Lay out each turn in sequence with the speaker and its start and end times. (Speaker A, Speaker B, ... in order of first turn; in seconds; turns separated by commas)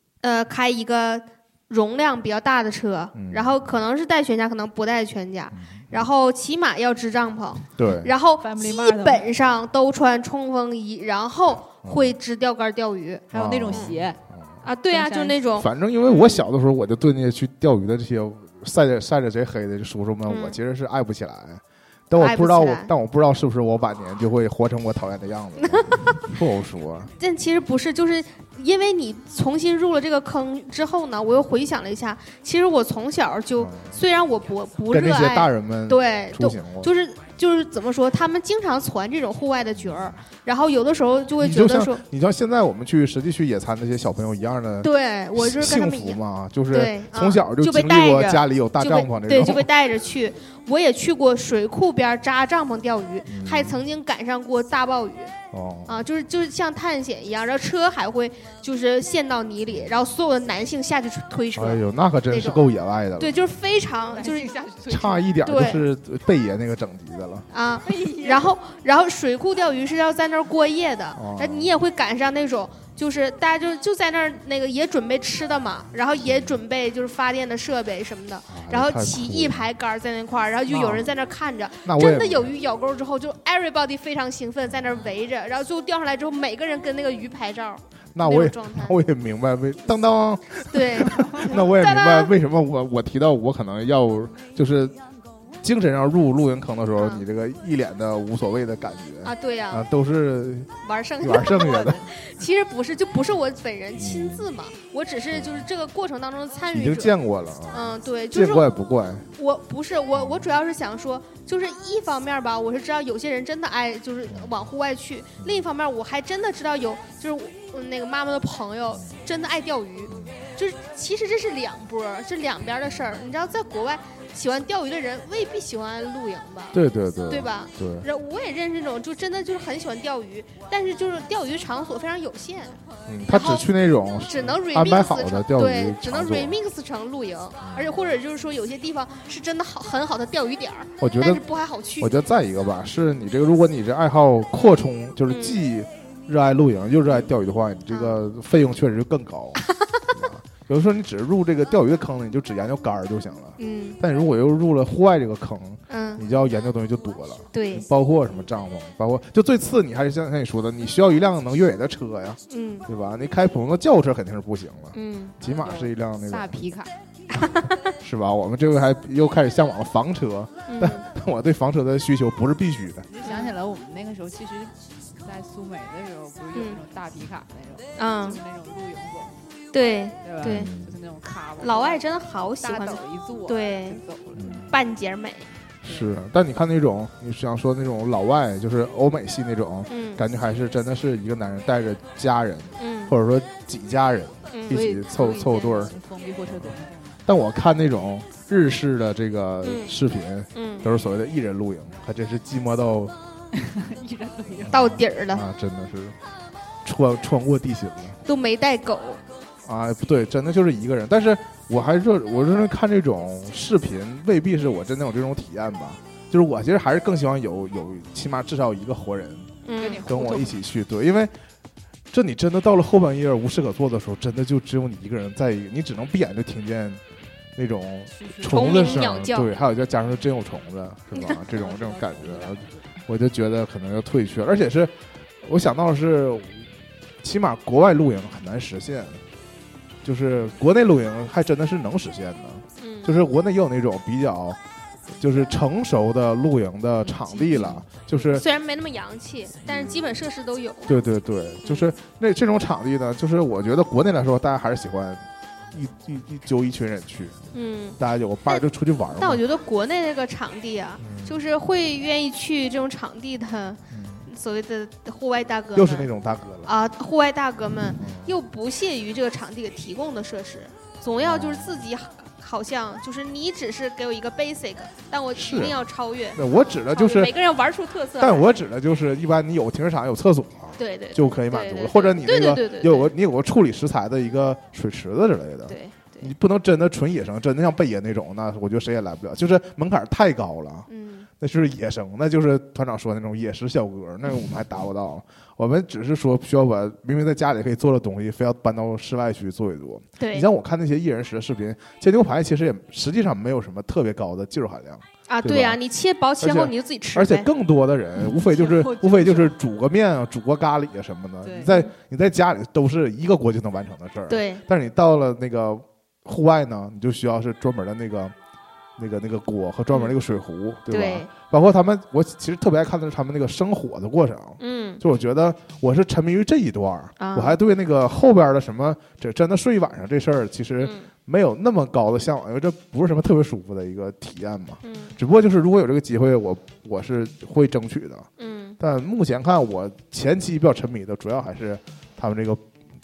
Speaker A: 0.2-13.9, Speaker B: 3.1-3.8, Speaker B: 5.5-6.1, Speaker B: 7.8-8.1, Speaker C: 8.4-9.2, Speaker B: 11.8-12.1, Speaker C: 13.3-14.2, Speaker B: 13.3-14.5, Speaker A: 14.6-16.4, Speaker C: 14.9-15.4, Speaker B: 15.6-27.1, Speaker A: 20.3-20.6, Speaker A: 22.2-22.9, Speaker A: 25.6-26.2, Speaker A: 27.2-42.0, Speaker B: 33.6-34.0, Speaker B: 34.9-36.9, Speaker B: 39.8-40.1, Speaker B: 41.4-49.7, Speaker A: 44.8-46.2, Speaker A: 46.7-55.3, Speaker B: 53.2-53.8, Speaker B: 55.5-56.0, Speaker A: 55.9-62.6, Speaker B: 59.7-60.0, Speaker B: 61.5-63.3, Speaker A: 63.2-64.5, Speaker C: 64.1-65.3, Speaker B: 64.9-67.5, Speaker A: 65.4-65.8, Speaker A: 67.5-89.0, Speaker C: 67.8-68.5, Speaker B: 71.1-71.7, Speaker B: 76.3-76.5, Speaker B: 78.5-79.7, Speaker B: 80.7-81.0, Speaker B: 81.8-82.5, Speaker B: 88.1-95.0, Speaker A: 90.7-92.3, Speaker B: 95.6-102.0, Speaker A: 97.0-97.2, Speaker A: 99.2-99.8, Speaker A: 100.8-107.1, Speaker B: 104.0-104.5, Speaker B: 105.3-105.6, Speaker B: 106.7-109.3, Speaker A: 107.7-108.7, Speaker A: 109.4-126.8, Speaker B: 110.1-110.5, Speaker B: 114.3-114.5, Speaker B: 115.4-115.7, Speaker B: 120.1-120.5, Speaker B: 126.7-128.1, Speaker A: 127.3-133.7, Speaker B: 133.1-136.6, Speaker A: 134.2-142.1, Speaker B: 137.6-137.9, Speaker B: 141.0-141.4, Speaker B: 142.0-149.6, Speaker A: 145.3-145.6, Speaker A: 147.9-148.2, Speaker A: 149.8-150.0, Speaker B: 150.1-166.5, Speaker A: 153.6-154.0, Speaker A: 155.9-156.2, Speaker A: 157.5-157.8, Speaker A: 162.5-162.8, Speaker A: 164.9-165.3, Speaker C: 165.5-166.9, Speaker A: 167.3-167.8, Speaker B: 168.0-173.1, Speaker A: 170.7-171.1, Speaker C: 173.1-179.3, Speaker A: 173.2-173.5, Speaker A: 178.0-178.4, Speaker A: 179.7-180.7, Speaker C: 180.2-184.7, Speaker B: 180.4-180.9, Speaker A: 181.6-184.0, Speaker B: 184.3-184.7, Speaker A: 184.7-185.5, Speaker C: 185.8-186.2, Speaker B: 185.8-195.9, Speaker A: 189.9-190.2, Speaker A: 192.8-193.1, Speaker A: 194.5-194.8, Speaker C: 194.7-197.2, Speaker B: 196.5-196.7, Speaker B: 197.2-203.1, Speaker A: 199.6-199.9, Speaker A: 200.5-200.8, Speaker C: 203.5-204.8, Speaker B: 204.6-206.2, Speaker A: 204.7-205.4, Speaker B: 206.8-208.2, Speaker A: 208.2-209.2, Speaker B: 209.6-219.5, Speaker A: 219.6-220.1, Speaker C: 219.8-220.6, Speaker B: 220.1-221.3, Speaker B: 222.1-227.0, Speaker B: 227.6-236.6, Speaker C: 228.1-229.0, Speaker A: 228.5-229.5, Speaker C: 231.5-233.0, Speaker B: 237.2-239.2, Speaker B: 240.0-244.6, Speaker A: 242.8-243.1, Speaker B: 245.2-248.4, Speaker A: 247.0-250.9, Speaker B: 249.6-250.0, Speaker B: 250.9-257.4, Speaker A: 257.5-258.6, Speaker B: 258.0-259.4, Speaker A: 259.2-266.1, Speaker B: 261.0-261.4, Speaker B: 263.9-264.3, Speaker B: 265.7-266.7, Speaker A: 266.6-278.5, Speaker B: 268.0-268.4, Speaker B: 271.2-271.8, Speaker B: 275.3-275.8, Speaker B: 276.3-277.3, Speaker B: 278.2-290.9, Speaker A: 280.8-283.1, Speaker A: 285.7-286.3, Speaker A: 290.9-291.3, Speaker B: 291.4-305.8, Speaker A: 300.2-300.4, Speaker A: 305.3-307.5, Speaker B: 306.4-318.3, Speaker C: 308.3-309.6, Speaker C: 311.4-311.8, Speaker A: 314.3-314.6, Speaker B: 319.0-338.3, Speaker A: 320.9-321.3, Speaker A: 324.6-325.0, Speaker A: 327.2-327.6, Speaker A: 330.8-331.1, Speaker A: 334.8-335.1, Speaker A: 338.4-338.8, Speaker B: 338.8-342.6